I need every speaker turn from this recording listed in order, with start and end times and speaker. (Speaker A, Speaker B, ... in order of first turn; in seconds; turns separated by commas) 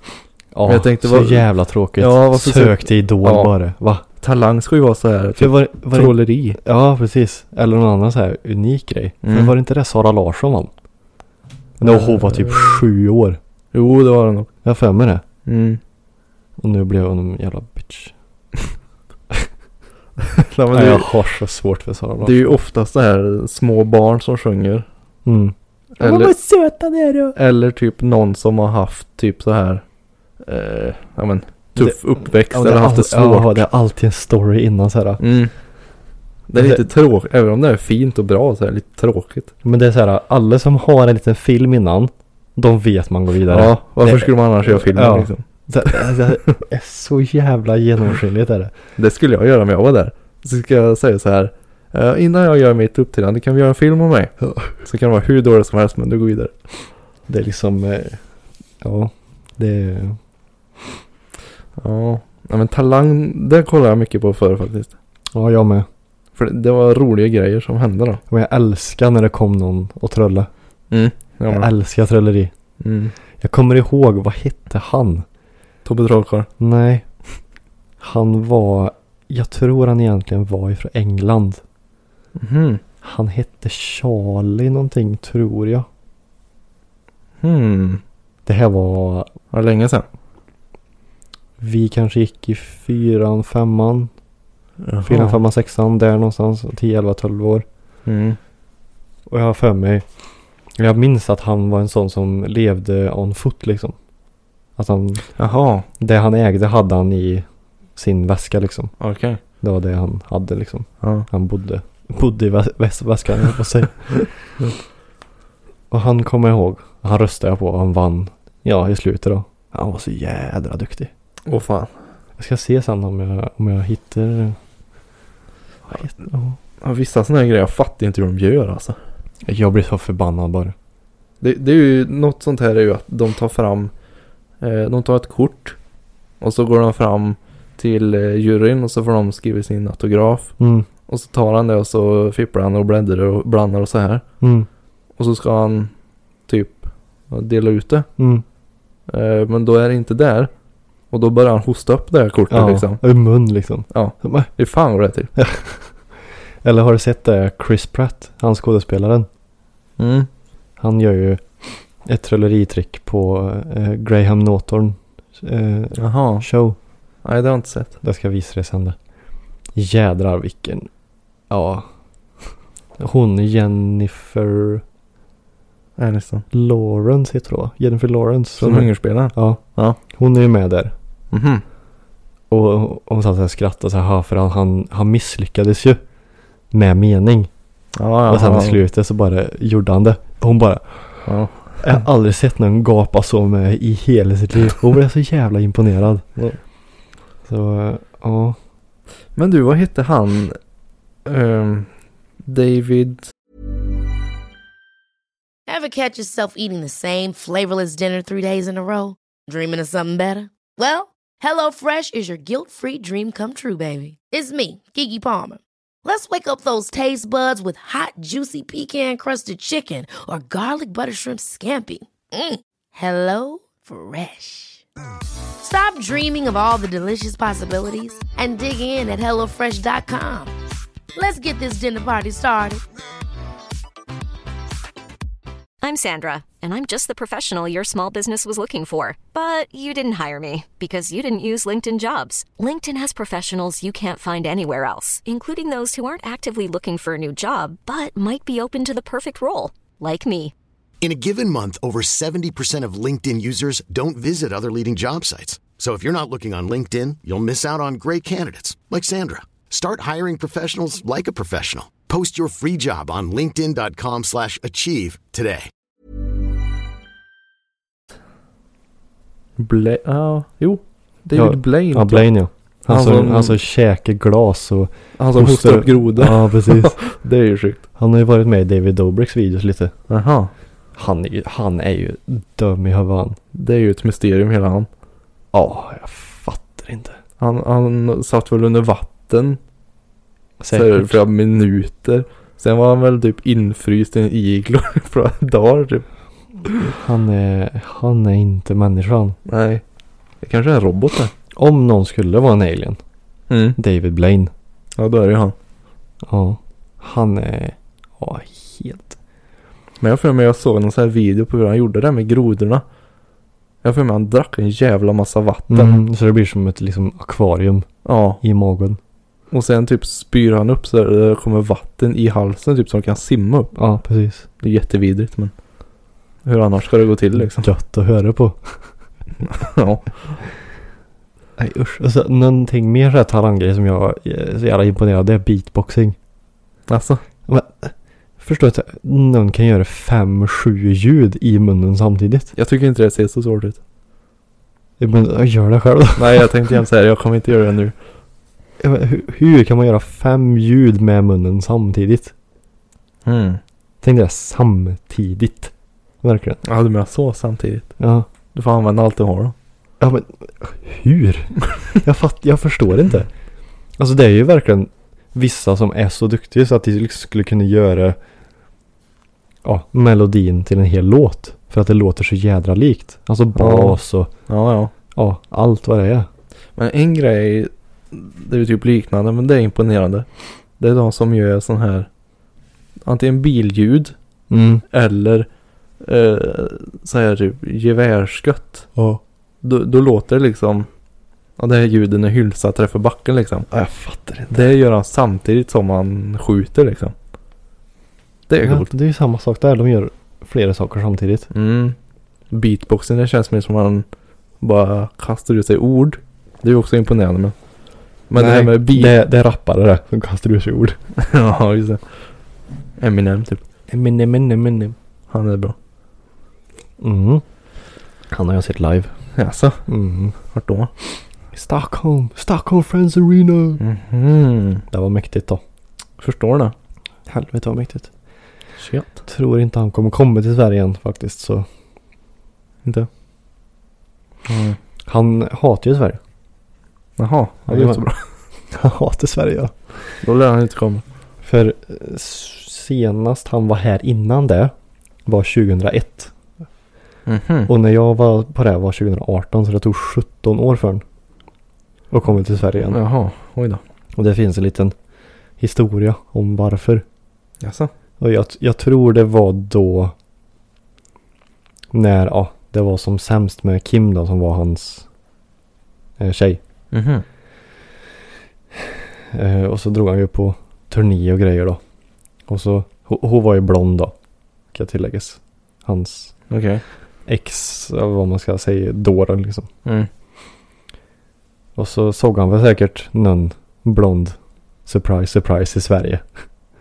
Speaker A: 0.5-4.0, Speaker B: 0.7-3.5, Speaker B: 4.2-6.6, Speaker A: 5.4-10.7, Speaker B: 9.2-9.5, Speaker A: 11.8-13.4, Speaker B: 11.8-12.8, Speaker B: 13.7-14.5, Speaker A: 14.6-15.2, Speaker B: 15.4-15.8, Speaker A: 16.6-18.1, Speaker B: 20.3-21.1, Speaker A: 20.7-22.5, Speaker B: 22.2-24.8, Speaker A: 25.2-27.4, Speaker B: 26.0-26.3, Speaker B: 27.3-29.8, Speaker B: 30.4-33.6, Speaker A: 32.5-35.2, Speaker B: 35.2-35.5, Speaker B: 36.5-39.5, Speaker A: 36.5-36.8, Speaker A: 39.6-48.7, Speaker B: 43.5-45.4, Speaker B: 49.0-56.5, Speaker A: 57.3-58.2, Speaker A: 58.8-60.2, Speaker B: 61.8-64.9, Speaker A: 65.3-65.9, Speaker B: 66.3-68.2, Speaker A: 68.3-70.5, Speaker B: 70.9-71.7, Speaker A: 71.5-72.5, Speaker B: 72.8-73.1, Speaker A: 73.4-75.2, Speaker B: 75.8-76.5, Speaker A: 76.6-77.0, Speaker A: 78.0-81.6, Speaker B: 82.3-82.8, Speaker A: 83.0-85.8, Speaker B: 87.4-88.0, Speaker A: 88.5-89.3, Speaker B: 89.5-90.0, Speaker A: 91.6-94.1, Speaker B: 94.8-95.4, Speaker A: 95.0-97.6, Speaker B: 98.0-98.4, Speaker A: 99.3-100.0, Speaker A: 100.8-103.9, Speaker A: 104.8-105.3, Speaker B: 105.4-105.8, Speaker A: 106.0-107.4, Speaker A: 108.0-108.9, Speaker B: 109.0-109.4, Speaker A: 109.6-114.5, Speaker B: 111.0-111.3, Speaker A: 115.9-121.1, Speaker B: 121.5-121.9, Speaker A: 122.4-124.6, Speaker A: 125.9-126.5, Speaker B: 126.8-129.0, Speaker A: 129.4-130.7, Speaker B: 131.4-133.9, Speaker B: 134.6-135.8, Speaker B: 136.4-140.5, Speaker A: 140.6-140.9, Speaker B: 141.1-144.2, Speaker A: 144.4-144.7, Speaker B: 145.2-145.9, Speaker B: 146.5-148.1, Speaker A: 148.2-148.4, Speaker B: 149.1-150.5, Speaker B: 151.1-153.0, Speaker A: 152.5-154.5, Speaker B: 153.9-155.3, Speaker A: 155.4-155.9, Speaker A: 156.6-159.3, Speaker B: 160.0-160.3, Speaker A: 160.8-161.4, Speaker A: 162.0-166.8, Speaker B: 166.0-166.5, Speaker B: 167.2-167.9, Speaker A: 168.0-168.9, Speaker A: 169.7-170.9, Speaker A: 171.5-171.9, Speaker A: 173.0-174.8, Speaker B: 176.0-176.4, Speaker A: 176.5-180.9, Speaker B: 178.6-180.0, Speaker B: 181.3-181.6, Speaker A: 182.5-186.0, Speaker A: 186.7-187.5, Speaker B: 188.0-188.8, Speaker A: 188.3-191.3, Speaker B: 191.2-191.9, Speaker A: 191.8-196.3, Speaker A: 197.4-198.6, Speaker B: 199.3-200.6, Speaker B: 201.2-201.9, Speaker B: 202.4-203.3, Speaker C: 205.7-224.8, Speaker C: 225.6-230.5, Speaker C: 231.2-232.8, Speaker D: 235.8-250.5, Speaker E: 251.0-265.7, Speaker B: 269.6-272.3, Speaker A: 271.3-277.0, Speaker B: 272.9-273.6, Speaker B: 275.2-277.8, Speaker A: 278.0-279.9, Speaker B: 280.1-280.5, Speaker A: 280.9-283.4, Speaker B: 283.5-284.9, Speaker A: 285.5-287.2, Speaker B: 287.4-289.6, Speaker A: 290.6-291.2, Speaker B: 290.7-296.0, Speaker B: 296.7-296.9, Speaker A: 296.9-299.4, Speaker B: 299.4-299.8, Speaker B: 300.4-301.3, Speaker A: 301.6-303.0, Speaker B: 303.5-303.8, Speaker A: 303.8-304.5, Speaker B: 305.0-305.5, Speaker A: 306.2-309.2, Speaker B: 310.0-312.8, Speaker B: 313.8-316.0, Speaker A: 315.7-317.9, Speaker B: 318.0-318.4, Speaker A: 318.4-319.0, Speaker B: 319.5-323.8, Speaker A: 323.7-324.4, Speaker B: 324.6-325.5, Speaker B: 326.4-327.7, Speaker A: 327.4-328.8, Speaker B: 329.4-330.1, Speaker A: 331.6-336.1, Speaker B: 336.9-337.2, Speaker A: 337.5-342.5, Speaker B: 342.6-343.8, Speaker A: 345.0-346.5, Speaker B: 346.1-347.9, Speaker A: 348.8-352.3, Speaker B: 353.2-353.6, Speaker A: 354.0-356.6, Speaker B: 356.6-357.9, Speaker A: 358.0-358.3, Speaker B: 358.5-359.5, Speaker A: 360.0-363.3, Speaker A: 364.0-368.2, Speaker A: 369.6-374.3, Speaker B: 373.5-374.9, Speaker A: 375.1-376.3, Speaker B: 376.8-380.3, Speaker B: 380.8-382.1, Speaker B: 383.1-384.1, Speaker A: 384.5-384.8, Speaker B: 384.9-385.5, Speaker B: 386.0-388.9, Speaker A: 388.9-389.2, Speaker B: 389.6-390.9, Speaker B: 391.6-393.7, Speaker A: 393.7-394.7, Speaker B: 394.5-397.1, Speaker B: 398.5-398.9, Speaker A: 398.6-401.5, Speaker B: 401.5-401.9, Speaker B: 402.5-404.0, Speaker B: 404.6-407.5, Speaker B: 408.3-409.1, Speaker A: 408.3-411.0, Speaker B: 411.2-412.0, Speaker B: 413.0-413.6, Speaker A: 413.9-414.9, Speaker B: 415.3-415.7, Speaker A: 417.0-417.4, Speaker A: 418.3-419.1, Speaker B: 419.4-419.8, Speaker A: 419.9-420.3, Speaker B: 420.5-420.9, Speaker A: 421.5-423.8, Speaker B: 423.8-424.8, Speaker A: 424.9-425.6, Speaker B: 426.2-426.7, Speaker A: 427.3-428.1, Speaker B: 428.8-429.1, Speaker A: 429.3-431.7, Speaker B: 434.5-434.8, Speaker A: 435.1-436.2, Speaker B: 437.2-438.2, Speaker A: 437.7-438.0, Speaker A: 438.7-439.7, Speaker B: 440.2-441.0, Speaker A: 441.4-444.7, Speaker A: 445.2-446.3, Speaker B: 447.2-447.7, Speaker A: 447.7-451.0, Speaker A: 452.1-453.0, Speaker B: 452.8-453.8, Speaker A: 454.1-454.9, Speaker A: 455.6-457.0, Speaker B: 457.6-457.9, Speaker A: 458.2-460.1, Speaker A: 461.9-465.1, Speaker A: 466.2-466.6, Speaker B: 466.9-467.2, Speaker A: 468.9-471.8, Speaker A: 472.5-474.1, Speaker A: 474.7-476.3, Speaker B: 476.5-476.8, Speaker A: 477.3-479.7, Speaker A: 481.8-486.2